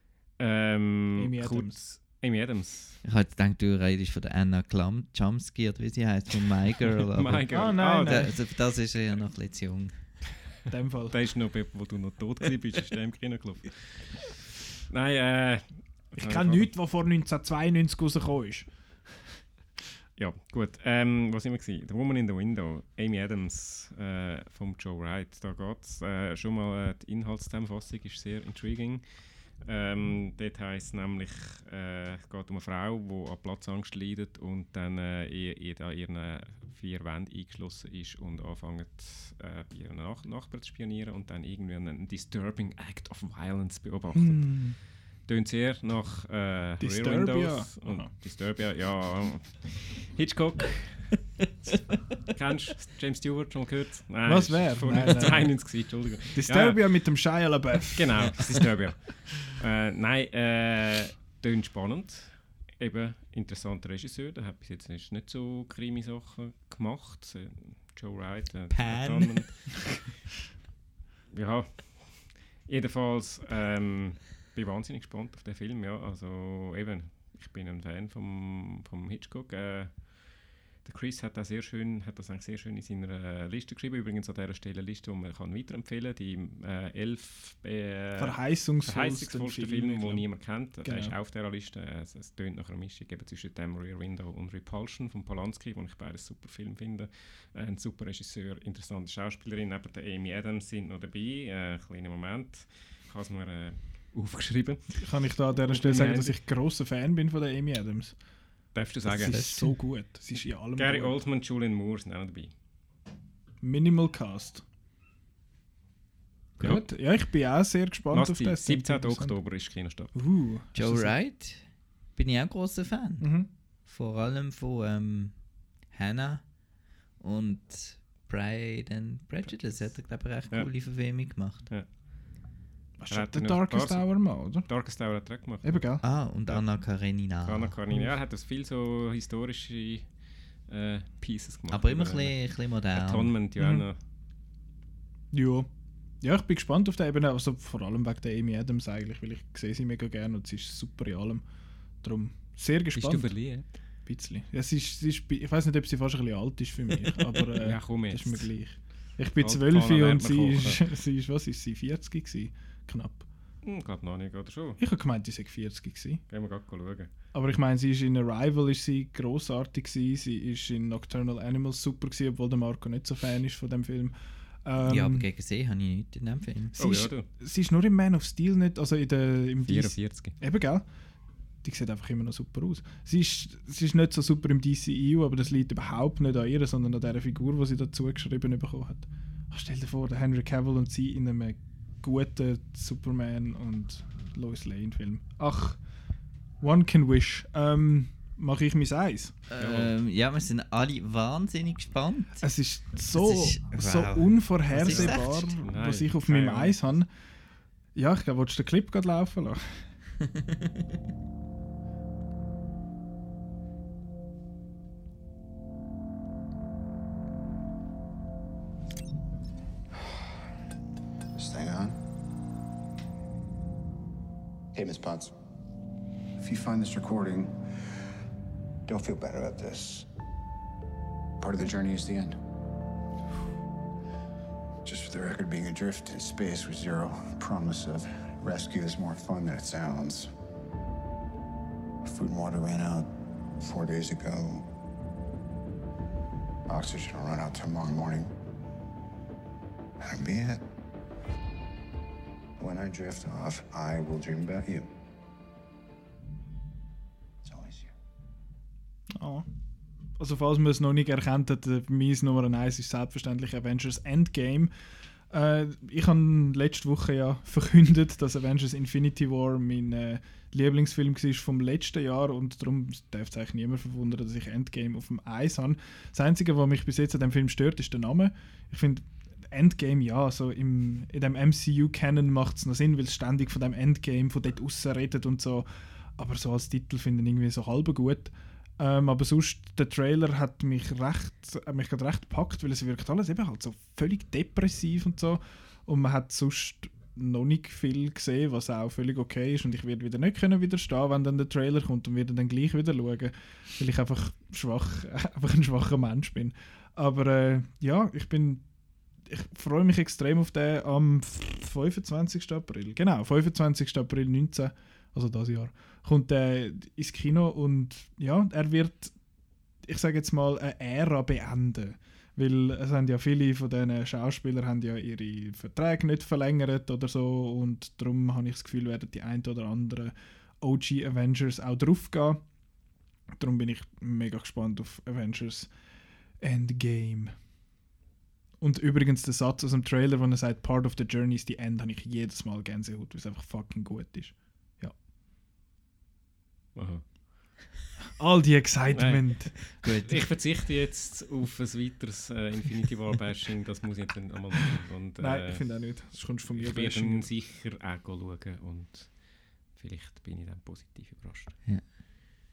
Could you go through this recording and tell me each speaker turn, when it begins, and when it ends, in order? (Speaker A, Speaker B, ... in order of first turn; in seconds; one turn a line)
Speaker A: 0.4-3.0
Speaker B: 1.1-1.8
Speaker C: 3.0-10.0
Speaker A: 7.2-8.3
Speaker B: 7.5-8.3
Speaker B: 10.7-11.2
Speaker A: 11.1-14.3
Speaker A: 14.9-16.7
Speaker B: 16.2-18.7
Speaker A: 20.2-51.2
Speaker B: 44.1-44.8
Speaker B: 46.8-48.1
Speaker A: 52.2-56.8
Speaker B: 54.2-55.7
Speaker B: 56.3-58.7
Speaker A: 58.0-70.0
Speaker C: 68.7-69.9
Speaker A: 71.3-105.0
Speaker B: 88.2-91.2
Speaker B: 105.0-108.2
Speaker A: 105.6-106.4
Speaker A: 108.7-109.5
Speaker B: 109.0-111.2
Speaker A: 110.8-112.5
Speaker B: 113.6-114.7
Speaker B: 116.6-119.4
Speaker A: 118.1-120.1
Speaker B: 120.2-121.1
Speaker C: 120.8-123.3
Speaker B: 123.2-123.5
Speaker C: 123.9-125.4
Speaker C: 125.9-126.4
Speaker C: 127.2-131.7
Speaker B: 133.0-134.7
Speaker A: 133.1-135.9
Speaker B: 135.6-136.0
Speaker C: 136.0-137.8
Speaker A: 137.2-140.1
Speaker A: 140.7-142.4
Speaker C: 141.7-143.3
Speaker A: 142.9-144.0
Speaker B: 143.6-143.9
Speaker B: 145.3-145.7
Speaker B: 146.2-151.4
Speaker B: 152.0-153.4
Speaker A: 152.9-153.7
Speaker B: 154.1-163.3
Speaker A: 157.5-158.5
Speaker A: 159.4-160.8
Speaker A: 163.6-164.8
Speaker B: 164.8-166.2
Speaker A: 166.3-167.1
Speaker B: 167.3-175.3
Speaker C: 174.8-176.8
Speaker A: 176.8-177.3
Speaker B: 176.8-180.9
Speaker A: 179.6-180.4
Speaker B: 181.6-195.8
Speaker B: 196.6-199.4
Speaker C: 199.5-202.5
Speaker A: 199.6-199.9
Speaker B: 202.4-207.1
Speaker C: 203.1-205.6
Speaker A: 204.8-206.8
Speaker B: 207.9-209.8
Speaker C: 210.2-210.7
Speaker D: 221.4-221.9
Speaker D: 224.8-225.3
Speaker D: 226.4-227.5
Speaker D: 228.9-230.1
Speaker D: 231.4-232.3
Speaker D: 234.8-240.3
Speaker D: 242.0-243.1
Speaker D: 243.6-244.6
Speaker D: 246.7-248.3
Speaker D: 250.0-250.6
Speaker D: 252.6-254.9
Speaker B: 259.1-259.5
Speaker B: 260.2-264.7
Speaker B: 265.3-308.6
Speaker B: 309.3-319.1
Speaker B: 319.9-332.4
Speaker B: 333.3-335.7
Speaker B: 336.4-337.3
Speaker B: 338.6-345.0
Speaker A: 346.8-347.6
Speaker B: 348.2-349.6
Speaker A: 348.9-355.6
Speaker C: 349.8-350.2
Speaker B: 355.2-357.3
Speaker A: 356.5-361.6